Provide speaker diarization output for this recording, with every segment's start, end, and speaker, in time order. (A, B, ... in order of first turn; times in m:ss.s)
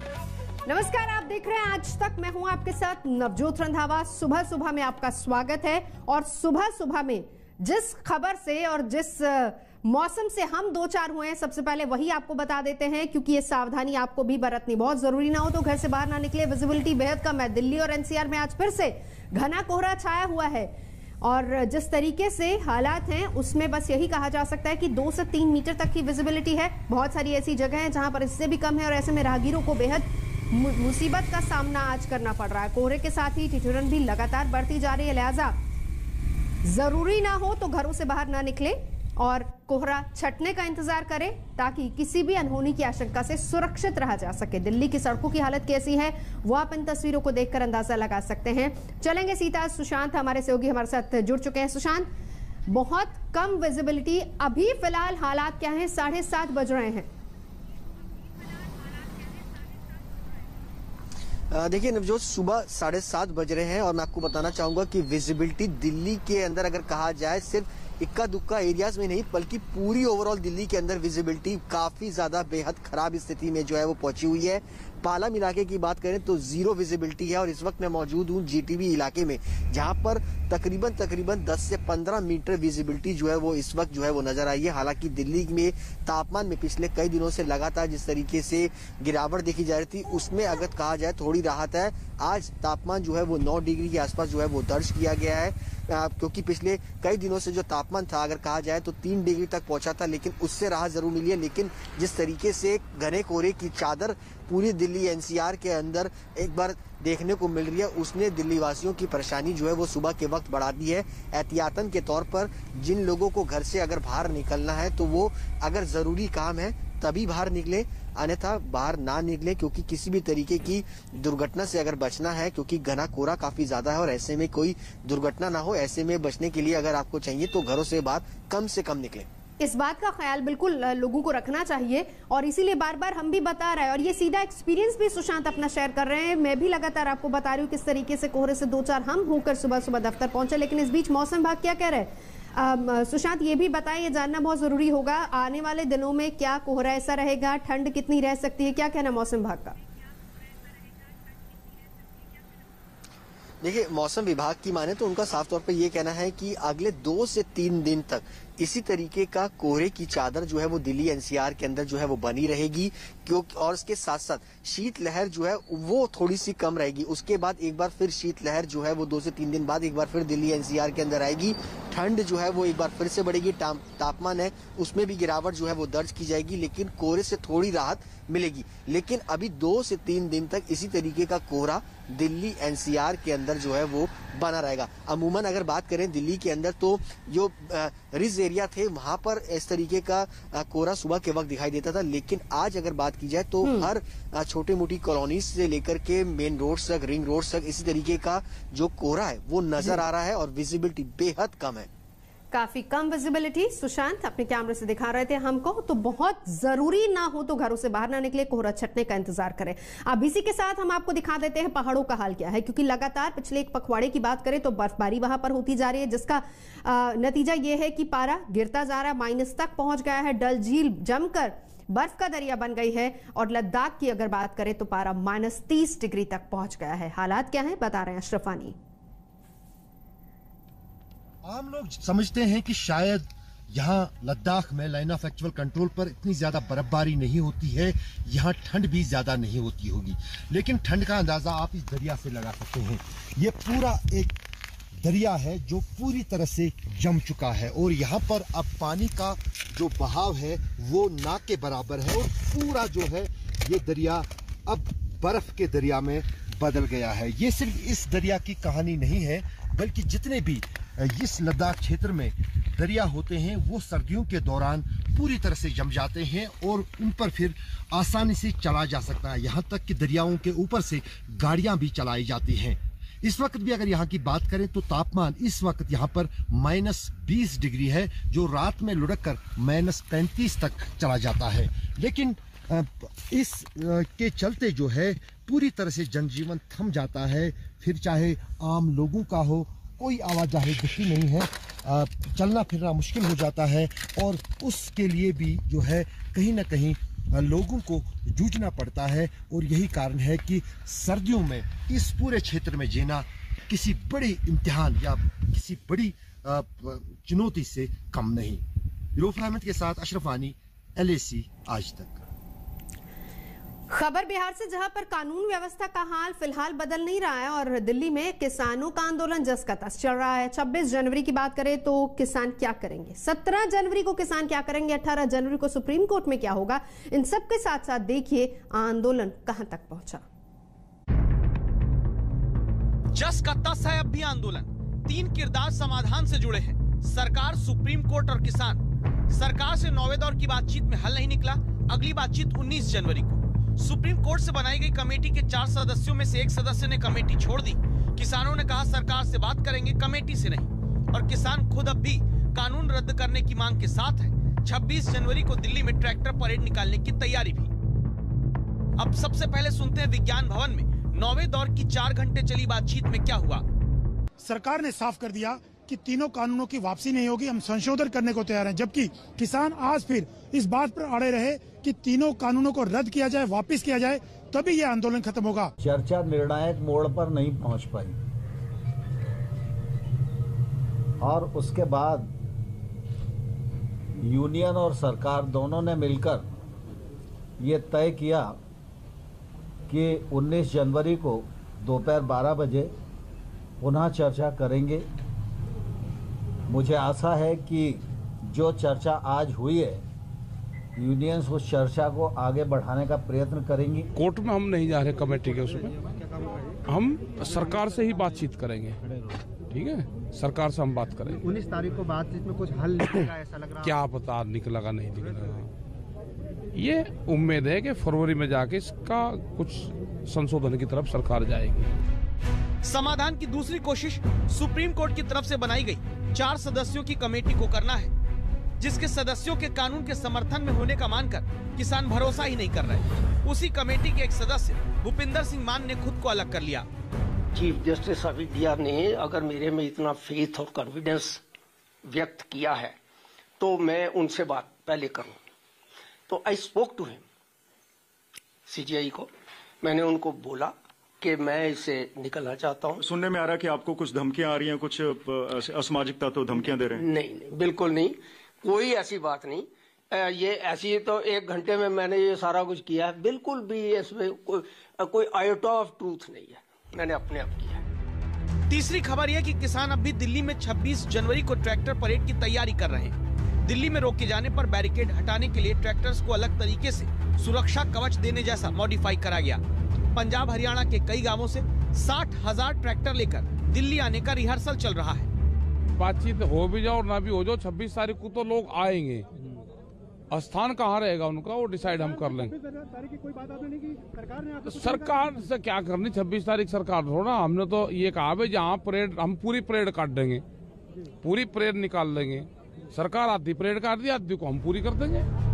0:00.6-0:35.6 A
0:36.6-0:52.1 A
0:52.7-0:57.1 A
1:01.5-2:09.3 B
2:09.6-2:29.8 A
2:33.6-3:21.9 B
3:13.6-3:13.9 A
3:19.8-3:20.0 A
3:22.5-3:48.8 A
3:51.4-4:04.4 C
4:05.0-5:08.6 C
5:09.1-5:12.2 C
5:13.9-5:30.2 A
5:33.1-5:57.7 D
5:59.0-6:03.6 D
6:04.5-6:14.2 E
6:14.9-6:15.7 E
6:15.8-6:18.2 F
6:21.2-6:22.3 F
6:24.2-6:26.4 F
6:27.6-6:28.6 F
6:29.9-6:32.9 F
6:33.8-6:35.0 F
6:36.7-6:40.0 F
6:41.0-6:44.1 F
6:44.2-6:46.0 G
6:46.9-6:49.0 G
6:49.7-6:51.5 G
6:51.4-6:54.0 H
6:53.8-6:55.7 G
6:56.7-7:01.9 G
7:02.8-7:08.1 D
7:08.8-7:16.8 D
7:17.5-7:21.4 I
7:22.0-7:22.9 I
7:23.6-7:25.4 I
7:26.3-7:27.2 I
7:28.7-7:29.3 I
7:29.8-7:33.0 I
7:33.0-7:37.0 J
7:36.6-7:47.8 I
7:48.7-7:59.6 D
8:00.1-8:05.3 D
8:06.0-8:09.3 G
8:10.3-8:12.6 G
8:14.6-8:20.4 G
8:21.2-8:25.3 G